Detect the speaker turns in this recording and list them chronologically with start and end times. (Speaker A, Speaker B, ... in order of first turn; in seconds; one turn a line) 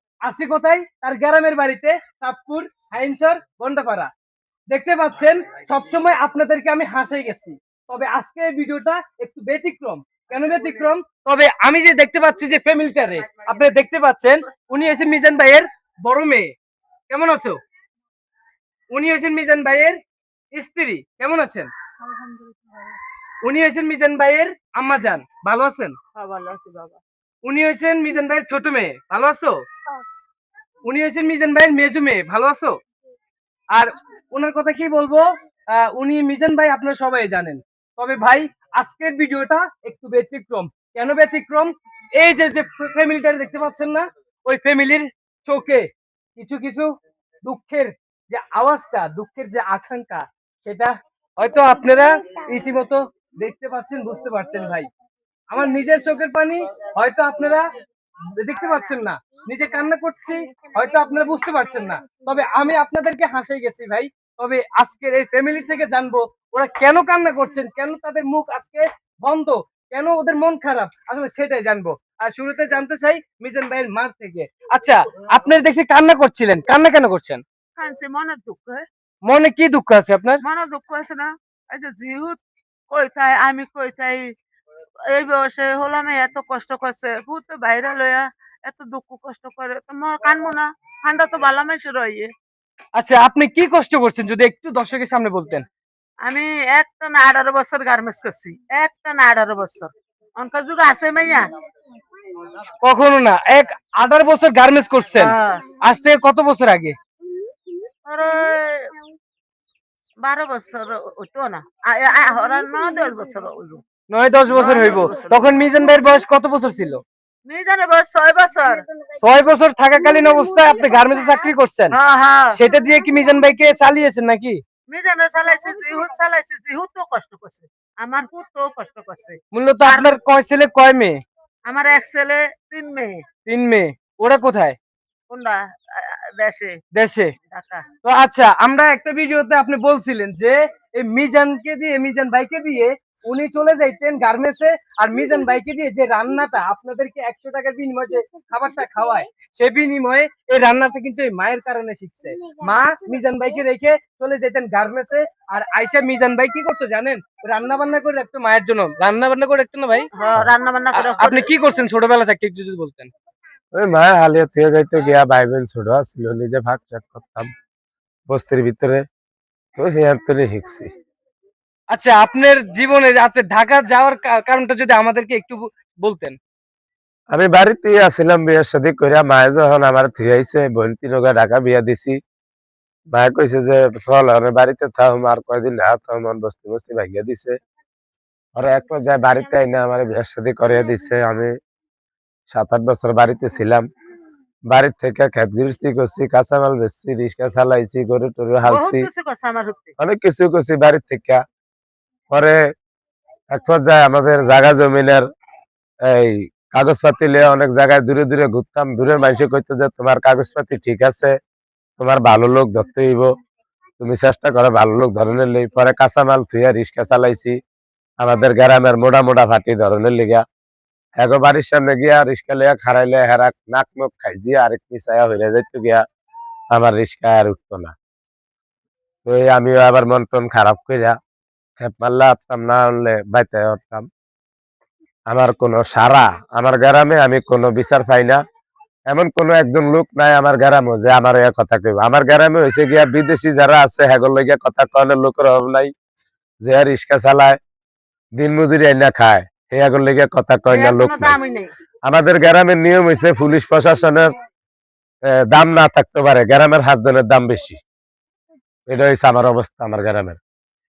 Speaker A: 0.2-4.1
Speaker A: 4.7-16.5
Speaker A: 17.1-17.6
Speaker A: 18.9-20.0
Speaker A: 20.5-21.7
Speaker A: 23.4-25.9
Speaker B: 26.1-27.0
Speaker A: 27.4-29.6
Speaker A: 30.9-32.8
Speaker A: 33.7-46.9
Speaker A: 47.5-54.9
Speaker A: 55.5-57.7
Speaker A: 58.4-77.4
Speaker B: 58.5-59.0
Speaker B: 77.8-78.8
Speaker A: 79.2-80.4
Speaker B: 80.4-84.3
Speaker B: 85.1-92.3
Speaker A: 93.0-95.6
Speaker B: 96.2-101.5
Speaker A: 102.8-107.0
Speaker B: 105.2-105.7
Speaker B: 108.0-108.9
Speaker B: 110.2-113.8
Speaker A: 114.1-117.0
Speaker B: 114.5-115.6
Speaker B: 117.5-118.8
Speaker A: 119.2-121.9
Speaker B: 121.9-122.6
Speaker A: 122.5-124.6
Speaker B: 124.9-130.1
Speaker A: 129.5-131.2
Speaker B: 131.7-133.2
Speaker A: 133.4-134.8
Speaker B: 135.3-136.8
Speaker A: 136.9-137.3
Speaker B: 137.5-137.8
Speaker A: 138.0-160.1
Speaker B: 160.1-161.5
Speaker A: 161.0-163.1
Speaker C: 163.7-167.5
Speaker C: 168.3-169.0
Speaker C: 169.8-170.9
Speaker A: 171.9-176.4
Speaker C: 177.3-182.2
Speaker C: 183.1-187.6
Speaker C: 188.5-191.6
Speaker C: 192.5-193.8
Speaker C: 194.7-199.1
Speaker B: 198.7-199.9
Speaker C: 200.0-201.4
Speaker C: 202.3-202.7
Speaker C: 203.5-205.2
Speaker C: 206.0-211.3
Speaker C: 212.0-213.3
Speaker C: 214.0-217.6
Speaker C: 218.2-220.4
Speaker C: 221.2-226.0
Speaker C: 226.7-227.9
Speaker C: 229.2-231.2
Speaker C: 231.8-234.1
Speaker C: 235.3-238.4
Speaker C: 239.1-245.9
Speaker C: 246.6-247.6
Speaker C: 248.4-251.4
Speaker B: 250.7-251.7
Speaker C: 252.1-254.3
Speaker C: 255.3-257.8
Speaker C: 258.9-260.4